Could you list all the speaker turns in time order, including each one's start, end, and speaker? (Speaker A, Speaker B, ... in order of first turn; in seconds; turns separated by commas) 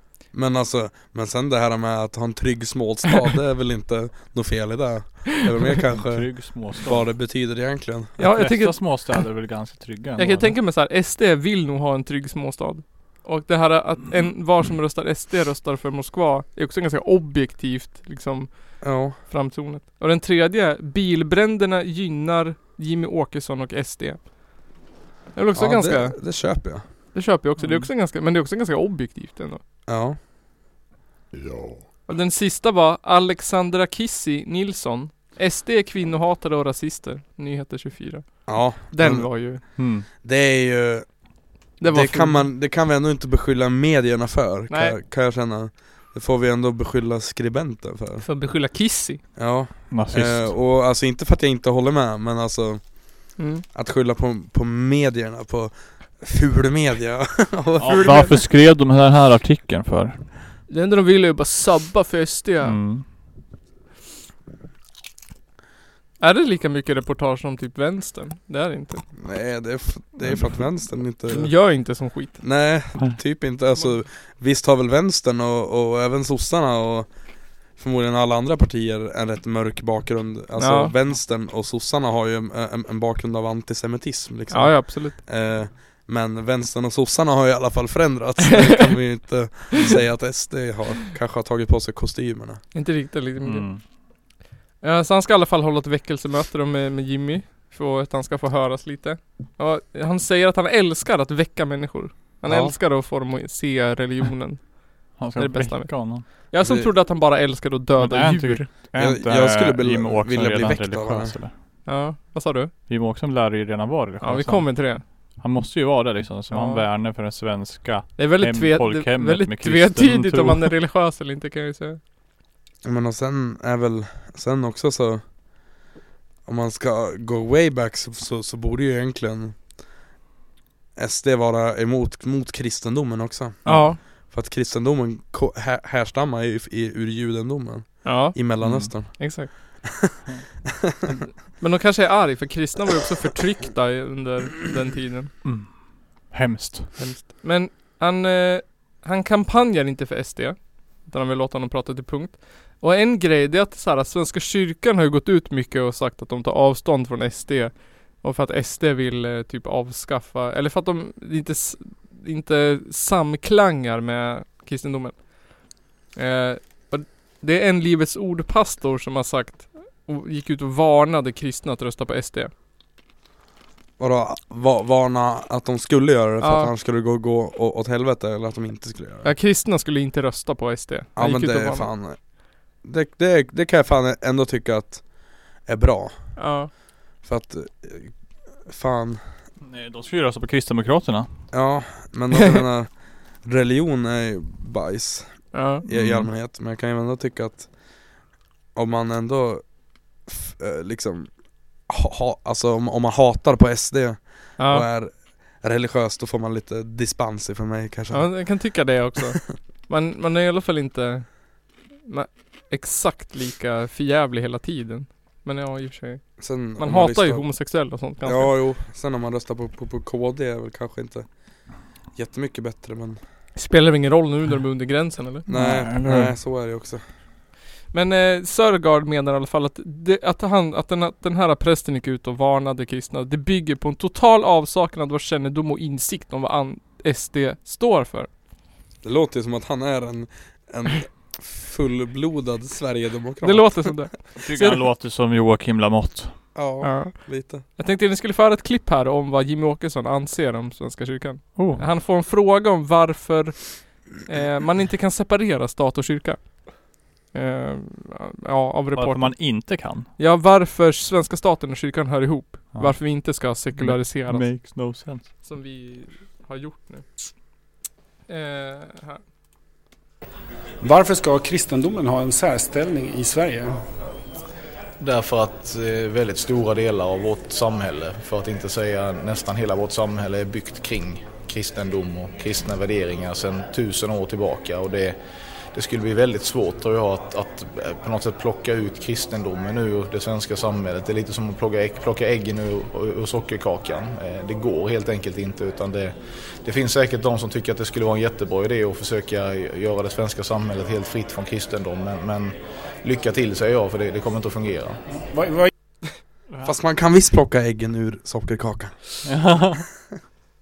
Speaker A: 0.3-8.2, Speaker B: 5.9-7.1, Speaker C: 8.2-9.3, Speaker B: 8.3-10.6, Speaker C: 10.2-24.3, Speaker A: 18.8-19.2, Speaker C: 25.4-29.6, Speaker A: 25.6-26.8, Speaker B: 27.6-27.9, Speaker A: 29.9-30.2, Speaker C: 32.1-39.6, Speaker A: 38.5-41.3, Speaker B: 39.8-40.1, Speaker C: 41.8-42.5, Speaker A: 41.8-48.3, Speaker C: 44.7-45.0, Speaker C: 48.2-49.2, Speaker A: 49.4-58.2, Speaker B: 49.9-50.6, Speaker C: 53.4-53.6, Speaker B: 57.8-60.3, Speaker C: 57.8-58.4, Speaker C: 60.7-62.8, Speaker B: 62.6-63.1, Speaker C: 66.2-69.1, Speaker A: 69.2-71.7, Speaker C: 71.3-72.4, Speaker A: 72.4-92.6, Speaker C: 80.6-80.9, Speaker C: 84.5-85.2, Speaker C: 92.7-93.7, Speaker B: 93.4-93.8, Speaker C: 94.8-108.7, Speaker A: 102.5-102.8, Speaker B: 105.2-106.2, Speaker A: 106.6-106.9, Speaker B: 108.0-111.5, Speaker A: 108.9-111.4, Speaker C: 111.8-112.7, Speaker B: 112.9-120.7, Speaker C: 114.2-115.0, Speaker C: 116.5-116.8, Speaker C: 118.2-122.0, Speaker A: 122.8-125.2, Speaker A: 126.5-129.6, Speaker A: 131.0-139.7, Speaker C: 133.7-134.0, Speaker C: 138.0-139.5, Speaker B: 138.6-138.9, Speaker C: 141.6-145.3, Speaker B: 145.4-146.9, Speaker A: 147.0-147.3, Speaker C: 147.2-165.5, Speaker C: 166.1-172.5, Speaker A: 174.0-179.3, Speaker C: 176.4-176.7, Speaker C: 179.2-181.9, Speaker A: 181.2-186.4, Speaker C: 186.4-186.7, Speaker A: 187.2-189.2, Speaker B: 189.6-191.3, Speaker A: 191.5-198.0, Speaker C: 195.5-195.8, Speaker B: 195.9-196.3, Speaker A: 198.8-199.7, Speaker A: 200.2-201.3, Speaker A: 201.8-208.5, Speaker C: 204.6-204.9, Speaker C: 208.1-218.6, Speaker A: 216.4-217.5, Speaker A: 218.2-221.3, Speaker A: 222.1-223.2, Speaker C: 223.6-225.5, Speaker A: 225.5-227.0, Speaker B: 225.5-226.3, Speaker C: 227.9-238.3, Speaker A: 239.0-244.1, Speaker C: 243.4-244.8, Speaker B: 244.4-246.4, Speaker A: 246.6-247.6, Speaker C: 246.8-256.6, Speaker B: 251.6-251.8, Speaker C: 257.3-264.7, Speaker B: 258.9-260.1, Speaker B: 262.7-265.3, Speaker C: 265.4-267.1, Speaker C: 268.3-269.2, Speaker D: 270.8-273.8, Speaker E: 275.0-285.2, Speaker E: 285.7-305.0, Speaker D: 305.3-305.7, Speaker B: 306.5-306.8, Speaker A: 306.6-309.2, Speaker B: 309.2-309.9